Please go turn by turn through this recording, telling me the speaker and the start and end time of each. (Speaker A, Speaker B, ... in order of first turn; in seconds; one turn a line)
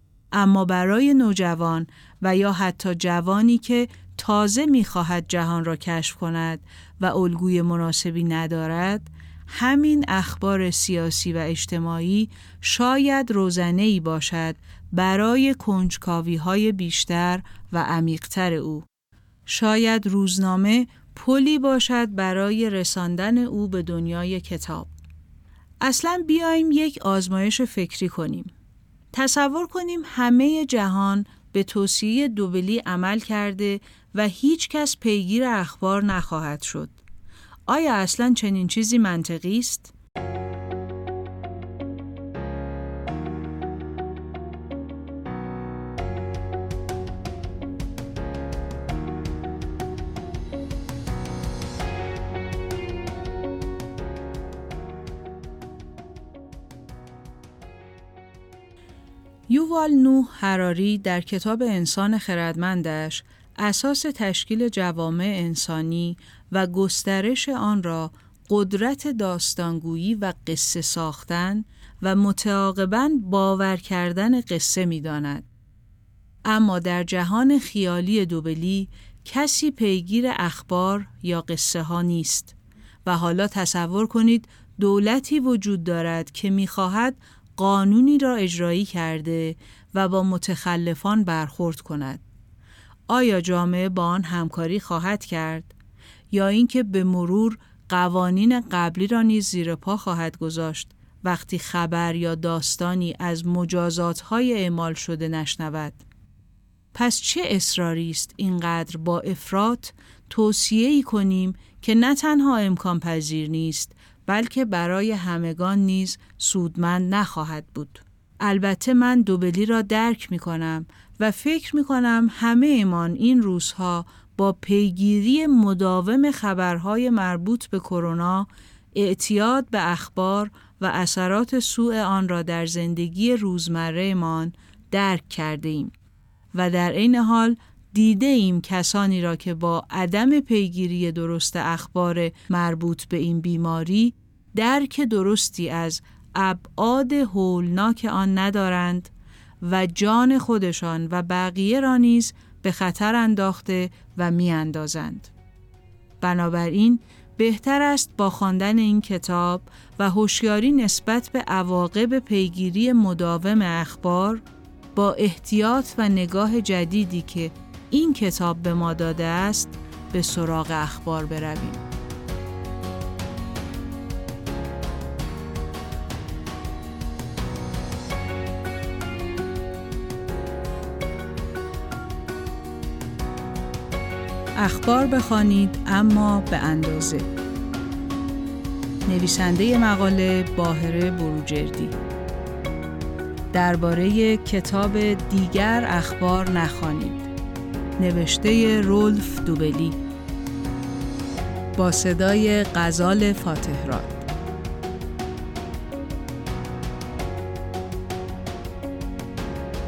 Speaker A: 0.3-18.8
Speaker A: 19.5-24.9
Speaker A: 25.8-28.5
Speaker A: 29.1-37.0
Speaker A: 37.7-39.9
Speaker A: 59.5-75.5
Speaker A: 76.5-92.2
Speaker A: 93.1-95.7
Speaker A: 96.3-106.0
Speaker A: 106.9-135.9
Speaker A: 136.5-155.3
Speaker A: 156.2-164.4
Speaker A: 164.9-171.8
Speaker A: 184.6-187.3
Speaker A: 189.1-191.9
Speaker A: 193.5-197.3
Speaker A: 198.0-199.9
Speaker A: 201.8-204.2